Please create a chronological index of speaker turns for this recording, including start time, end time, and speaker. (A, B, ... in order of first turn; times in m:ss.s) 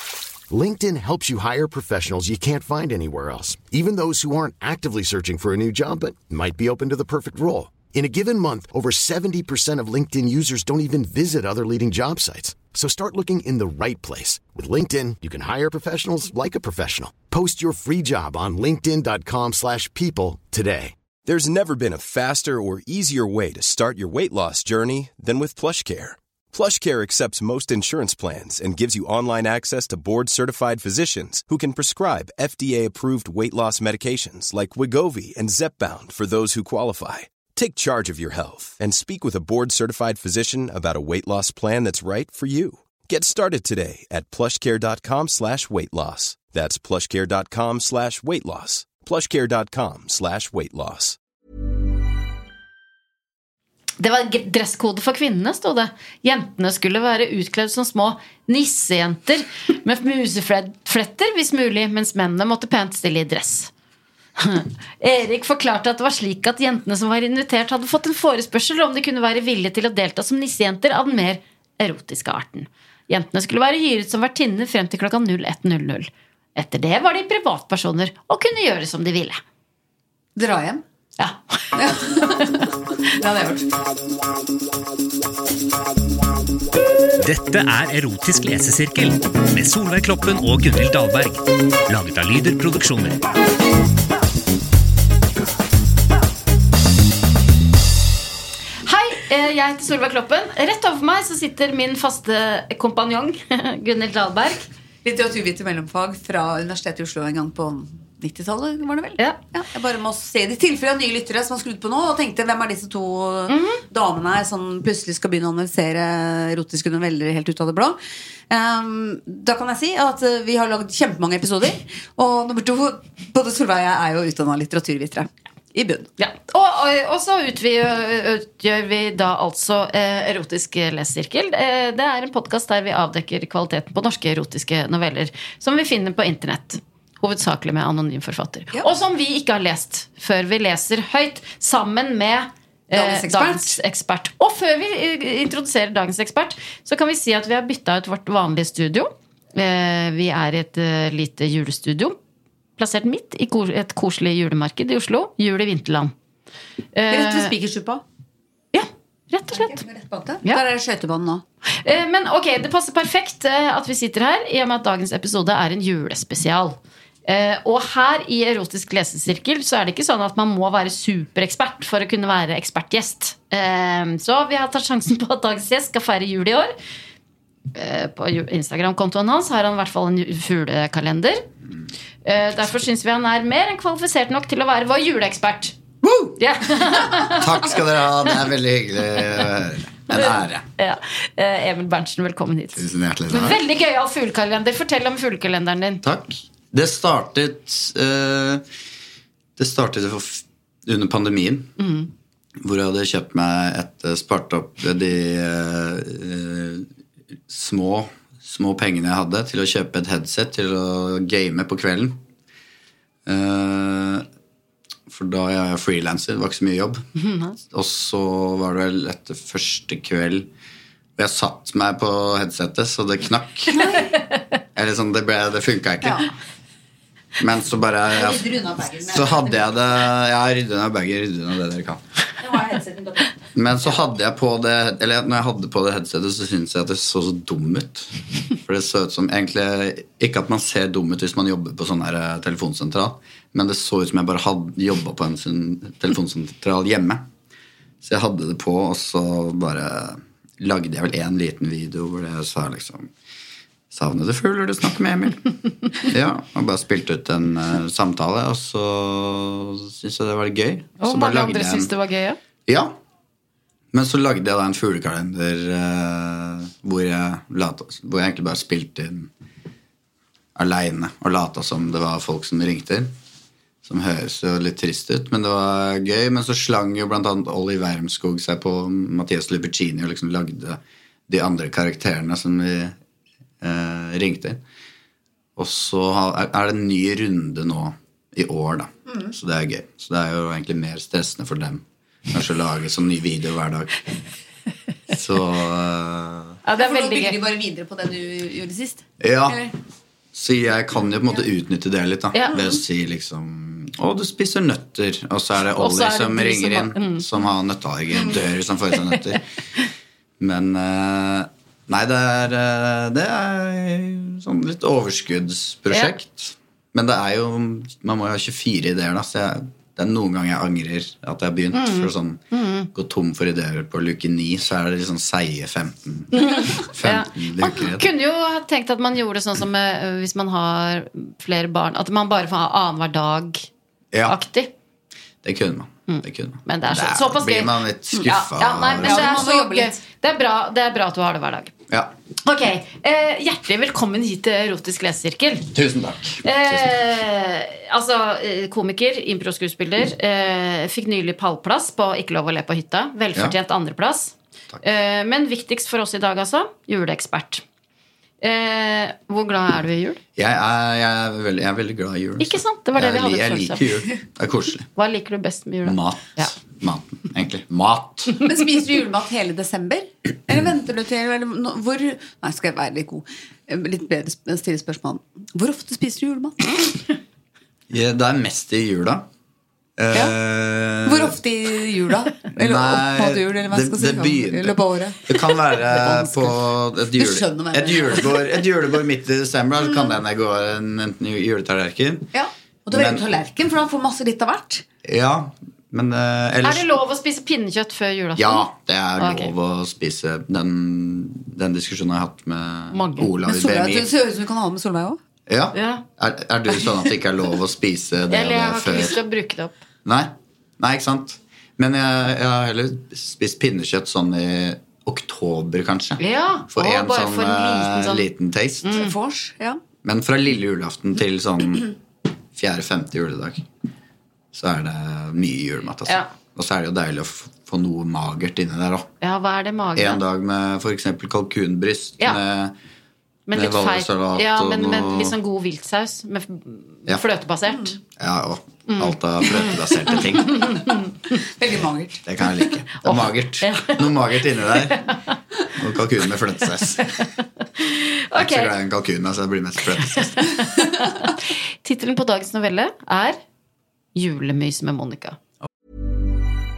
0:00.5-0:20.9 A
0:21.2-0:51.2 B
0:54.0-1:03.7 C
1:04.4-1:19.4 C
1:20.4-1:20.8 D
1:21.2-1:22.6 C
1:21.8-1:23.7 D
1:27.2-1:33.2 E
1:38.8-1:44.7 C
1:45.0-1:58.0 D
1:53.5-1:53.8 C
1:58.5-2:06.1 D
2:06.2-2:32.2 C
2:22.9-2:23.8 D
2:32.8-2:36.1 C
2:36.9-2:37.5 C
2:37.1-2:38.0 D
2:38.7-2:39.8 C
2:39.5-2:41.4 D
2:41.8-2:56.7 C
2:57.7-3:01.4 C
3:02.2-3:05.8 C
3:06.3-3:07.8 C
3:07.1-3:10.6 F
3:10.1-3:16.0 C
3:12.7-3:13.6 F
3:16.0-3:18.7 F
3:19.6-3:21.7 F
3:21.8-3:22.1 C
3:22.6-3:26.9 F
3:27.5-3:32.2 F
3:33.2-3:34.3 F
3:35.1-3:37.0 F
3:37.2-3:37.6 C
3:37.7-3:40.5 F
3:41.2-3:43.9 F
3:43.7-3:44.2 D
3:44.8-3:46.3 F
3:46.0-3:46.3 D
3:47.4-3:48.5 F
3:48.1-3:49.6 D
3:49.0-3:52.0 F
3:52.4-3:53.4 D
3:53.5-4:07.2 F
4:08.0-4:13.1 F
4:13.9-4:21.9 F
4:21.0-4:22.4 C
4:22.6-4:23.0 F
4:23.9-4:29.3 F
4:30.5-4:33.1 F
4:33.8-4:43.0 F
4:43.6-4:44.6 F
4:45.6-4:54.0 F
4:49.1-4:49.3 D
4:55.1-4:56.6 F
4:56.6-4:57.4 C
4:56.8-4:59.7 D
4:59.2-4:59.6 F
5:00.3-5:09.4 F
5:02.5-5:02.8 D
5:05.8-5:07.2 C
5:10.4-5:22.4 F
5:21.7-5:22.9 C
5:22.9-5:28.0 F
5:26.3-5:33.7 C
5:34.1-5:34.4 F
5:34.2-5:34.7 C
5:35.4-5:39.4 F
5:36.1-5:41.7 C
5:39.0-5:40.0 D
5:42.4-5:45.7 C
5:45.7-5:46.8 F
5:46.4-5:57.6 C
5:58.4-6:00.2 C
6:00.4-6:04.9 F
6:02.4-6:03.8 C
6:05.0-6:06.5 C
6:05.8-6:08.4 F
6:08.4-6:16.9 D
6:17.9-6:19.2 F
6:20.0-6:21.4 F
6:21.0-6:26.6 D
6:22.5-6:32.3 F
6:27.1-6:28.4 D
6:32.3-6:34.8 D
6:32.9-6:33.2 F
6:35.0-6:36.9 F
6:36.6-6:39.5 C
6:38.4-6:44.1 F
6:42.9-6:43.3 C
6:43.4-6:45.2 D
6:45.5-6:49.2 F
6:45.7-6:46.0 C
6:48.3-6:49.8 C
6:50.0-6:59.0 F
6:56.2-6:58.3 C
6:58.8-6:59.1 C
6:58.8-6:59.8 D
7:00.0-7:01.9 F
7:02.5-7:03.6 F
7:04.5-7:09.1 F
7:09.2-7:10.2 C
7:10.0-7:12.7 F
7:13.5-7:18.0 C
7:13.5-7:15.4 F
7:17.7-7:17.9 D
7:18.2-7:20.8 F
7:18.9-7:21.3 C
7:21.4-7:22.2 D
7:22.2-7:25.1 F
7:23.0-7:25.2 C
7:25.7-7:27.2 F
7:27.1-7:28.7 C
7:28.4-7:30.6 F
7:30.0-7:33.4 C
7:34.1-7:35.4 C